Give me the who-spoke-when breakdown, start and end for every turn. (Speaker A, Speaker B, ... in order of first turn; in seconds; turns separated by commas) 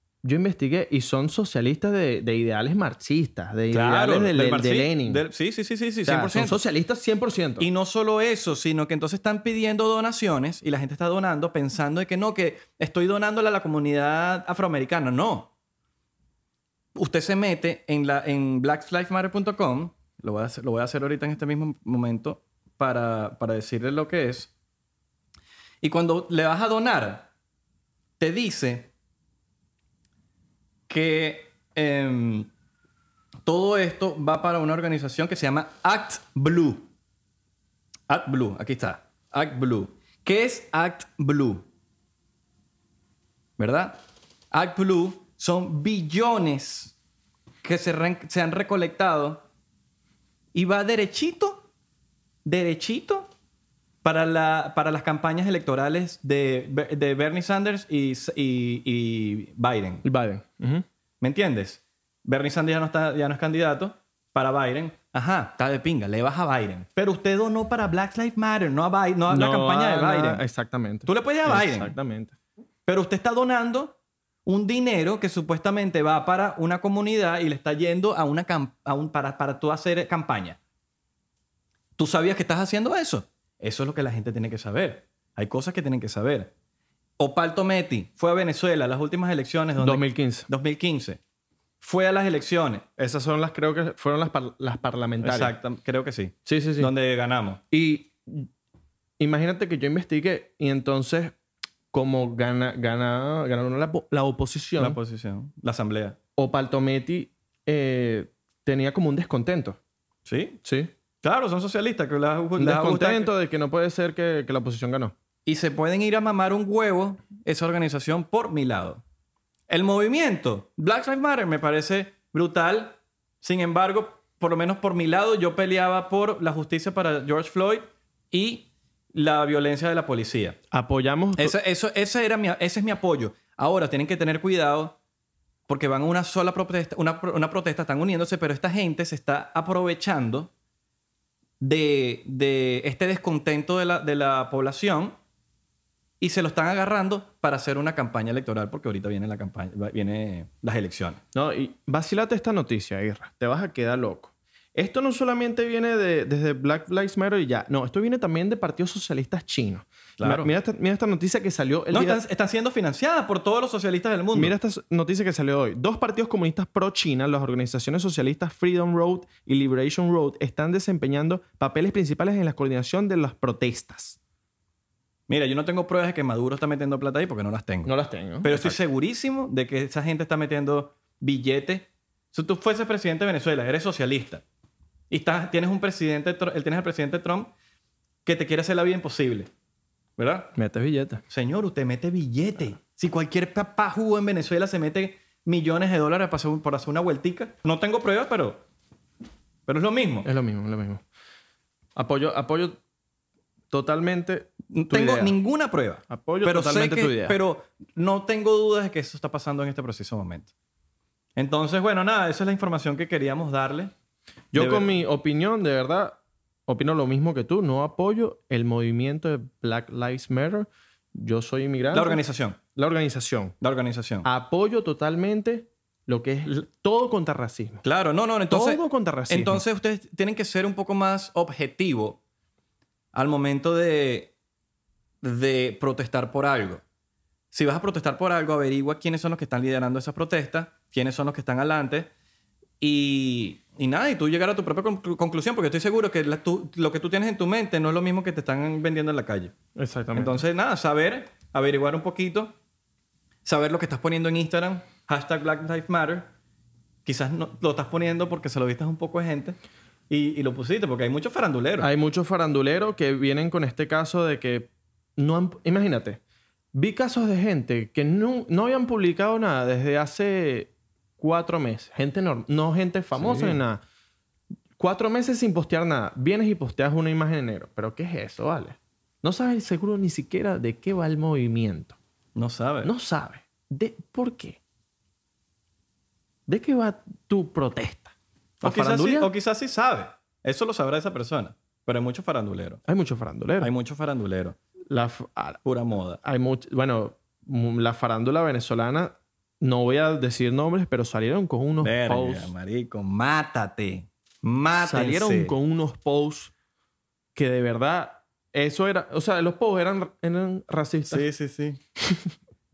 Speaker A: 0.2-5.2, Speaker B: 3.7-6.6, Speaker A: 6.0-7.7, Speaker B: 7.6-15.5, Speaker B: 16.9-24.5, Speaker B: 25.8-27.3, Speaker B: 28.2-28.9, Speaker B: 30.9-32.5, Speaker B: 33.4-36.9, Speaker B: 38.1-41.6, Speaker B: 43.6-46.9, Speaker B: 47.6-49.4, Speaker B: 50.5-51.6, Speaker B: 52.4-53.3, Speaker B: 54.0-60.0, Speaker A: 60.0-60.8, Speaker B: 61.2-70.4, Speaker A: 69.3-72.3, Speaker B: 71.1-71.9, Speaker B: 72.8-73.9, Speaker B: 74.5-80.6, Speaker B: 82.0-86.5, Speaker B: 87.2-91.2, Speaker A: 89.8-90.5, Speaker B: 91.8-92.9, Speaker A: 93.0-95.5, Speaker B: 95.2-97.6, Speaker A: 96.5-96.9, Speaker A: 97.7-98.5, Speaker A: 99.2-101.3, Speaker A: 101.9-105.0, Speaker B: 104.8-106.2, Speaker A: 106.3-109.8, Speaker B: 110.2-110.6, Speaker A: 110.6-110.9, Speaker B: 111.2-113.3, Speaker A: 112.6-115.1, Speaker B: 115.5-119.0, Speaker B: 119.7-130.6, Speaker A: 130.7-131.5, Speaker B: 131.3-134.9, Speaker B: 135.7-140.5, Speaker B: 141.6-145.2, Speaker B: 146.2-151.2, Speaker A: 151.3-162.2, Speaker B: 160.2-160.5, Speaker B: 161.9-164.5, Speaker A: 164.3-174.2, Speaker B: 175.3-177.9, Speaker A: 177.8-178.8, Speaker B: 178.4-184.4, Speaker B: 185.1-187.5, Speaker B: 188.2-189.5, Speaker B: 190.2-190.5, Speaker A: 190.6-191.2, Speaker B: 191.3-198.6, Speaker B: 199.7-200.3, Speaker A: 200.2-201.0, Speaker A: 201.9-202.8, Speaker A: 203.7-205.3, Speaker B: 204.7-210.5, Speaker A: 206.1-207.4, Speaker B: 211.3-213.9, Speaker A: 214.5-222.2, Speaker B: 214.5-214.9, Speaker B: 221.9-222.6, Speaker A: 222.7-223.6, Speaker B: 223.6-224.3, Speaker A: 224.2-227.8, Speaker B: 227.8-232.2, Speaker A: 228.5-229.6, Speaker B: 233.1-234.3, Speaker B: 235.2-236.8, Speaker B: 237.5-242.1, Speaker B: 242.8-249.5, Speaker A: 249.8-250.4, Speaker B: 250.1-252.5, Speaker B: 253.4-256.3, Speaker B: 257.0-259.6, Speaker B: 260.1-261.9, Speaker A: 261.8-266.2, Speaker A: 266.7-273.8, Speaker B: 273.1-273.6, Speaker A: 274.8-282.0, Speaker B: 282.4-282.9, Speaker A: 282.8-284.6, Speaker A: 286.5-289.3, Speaker B: 288.6-292.8, Speaker A: 292.9-293.7, Speaker B: 293.6-294.6, Speaker A: 294.9-295.6, Speaker B: 295.6-296.2, Speaker A: 296.2-302.5, Speaker B: 301.8-305.5, Speaker A: 304.7-306.5, Speaker A: 307.4-311.2, Speaker B: 311.1-311.8